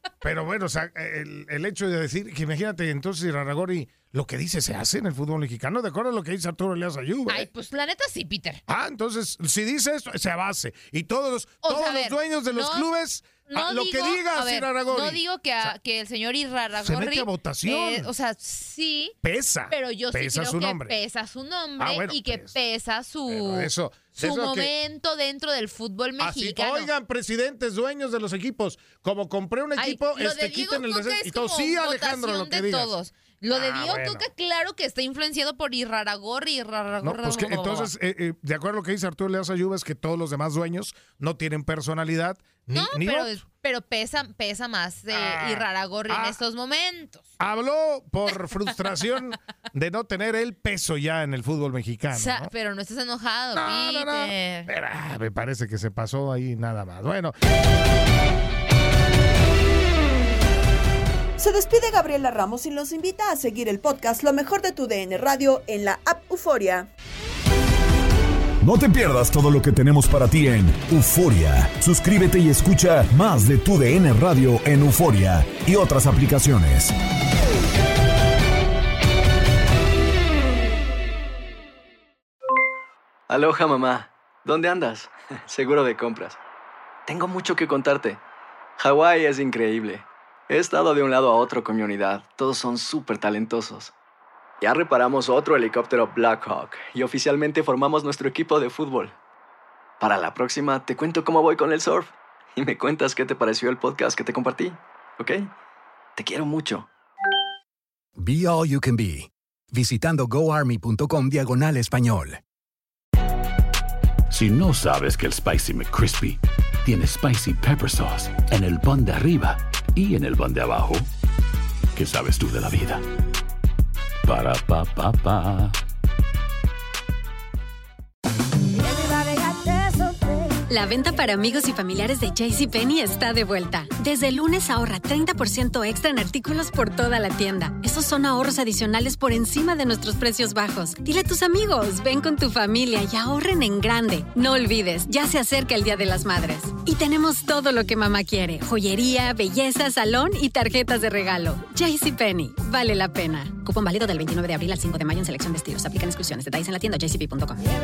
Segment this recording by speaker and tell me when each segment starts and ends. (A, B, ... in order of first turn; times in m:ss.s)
0:00.2-0:07.5 A
0:07.3-0:08.6 B
0:08.7-0:15.7 A
0:11.6-0:12.9 B
0:13.4-0:19.1 B
0:16.8-0:18.1 A
0:19.2-0:20.9 A
0:19.7-0:26.9 B
0:21.8-0:22.6 A
0:23.3-0:24.7 A
0:26.2-0:32.9 A
0:29.8-0:37.9 B
0:33.5-0:34.3 A
0:37.0-0:43.4 A
0:42.7-0:47.2 B
0:45.1-0:46.4 A
0:47.4-0:52.5 A
0:52.1-0:54.7 B
0:53.5-0:57.3 A
1:01.4-1:06.9 C
1:08.6-1:16.9 D
1:23.3-1:26.4 E
1:27.0-1:28.2 E
1:28.8-1:33.9 E
1:34.6-1:39.1 E
1:40.0-1:45.5 E
1:46.2-1:46.9 E
1:48.2-1:49.2 F
1:49.9-1:52.3 F
1:54.6-1:55.0 G
1:56.9-1:57.4 G
1:58.6-1:59.3 G
2:00.0-2:00.9 G
2:04.4-2:05.3 G
2:10.7-2:37.6 H